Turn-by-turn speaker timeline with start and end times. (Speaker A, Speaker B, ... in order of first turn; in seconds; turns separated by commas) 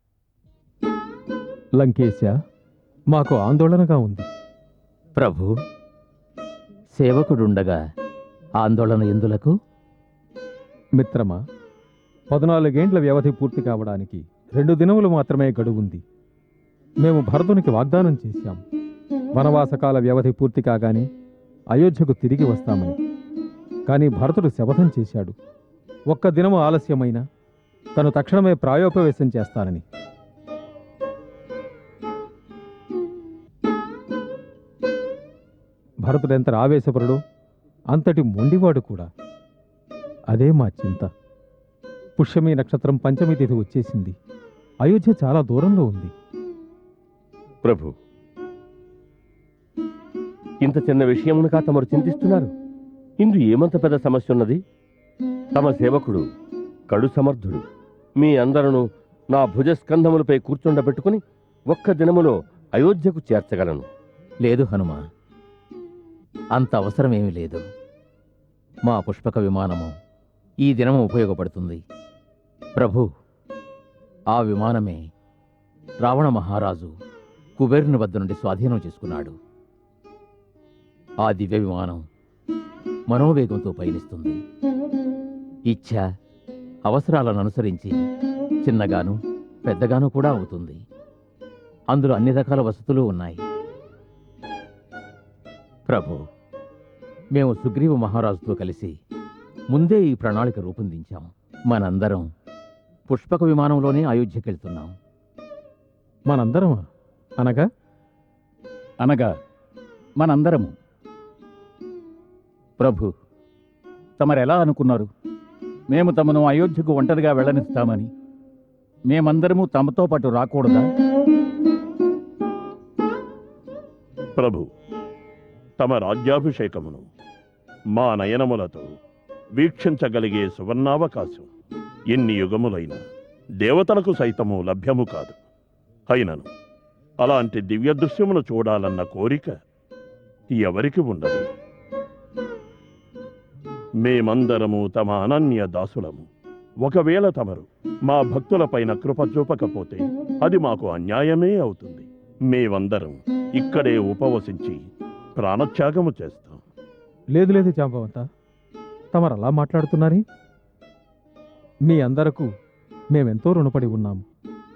Speaker A: 1.8-2.3, Speaker A: 3.1-4.3, Speaker B: 5.2-5.5, Speaker B: 7.0-7.8, Speaker B: 8.6-9.6, Speaker A: 11.0-11.4, Speaker A: 12.3-16.0, Speaker A: 17.0-18.6, Speaker A: 19.4-21.1, Speaker A: 21.7-23.0, Speaker A: 23.9-25.4, Speaker A: 26.1-27.2, Speaker A: 28.0-29.8, Speaker A: 36.1-37.2, Speaker A: 37.9-39.1, Speaker A: 40.3-41.1, Speaker A: 42.2-44.2, Speaker A: 44.9-46.1, Speaker C: 47.6-47.9, Speaker C: 50.6-52.5, Speaker C: 53.2-54.6, Speaker C: 55.5-56.2, Speaker C: 56.9-57.6, Speaker C: 58.2-63.9, Speaker B: 64.4-65.0, Speaker B: 66.6-67.6, Speaker B: 68.9-69.9, Speaker B: 70.6-71.8, Speaker B: 72.8-73.1, Speaker B: 74.3-75.0, Speaker B: 76.0-76.9, Speaker B: 77.6-79.4, Speaker B: 81.2-82.0, Speaker B: 83.1-84.4, Speaker B: 85.7-86.0, Speaker B: 86.9-88.0, Speaker B: 88.6-90.8, Speaker B: 91.9-93.4, Speaker B: 95.9-96.2, Speaker B: 97.3-98.9, Speaker B: 99.7-102.3, Speaker B: 103.1-105.0, Speaker A: 106.3-106.8, Speaker A: 107.4-107.7, Speaker D: 109.0-109.3, Speaker D: 110.2-110.7, Speaker B: 112.8-113.1, Speaker D: 114.2-115.1, Speaker D: 115.9-118.1, Speaker D: 119.1-120.8, Speaker E: 124.4-124.7, Speaker E: 125.8-127.1, Speaker E: 128.0-128.9, Speaker E: 129.6-131.5, Speaker E: 132.1-133.0, Speaker E: 133.6-135.4, Speaker E: 136.1-136.5, Speaker E: 137.2-139.5, Speaker E: 140.5-141.5, Speaker E: 144.0-146.3, Speaker E: 146.8-154.8, Speaker E: 155.4-156.6, Speaker A: 157.4-158.2, Speaker A: 159.1-160.2, Speaker A: 161.9-162.5, Speaker A: 163.1-164.2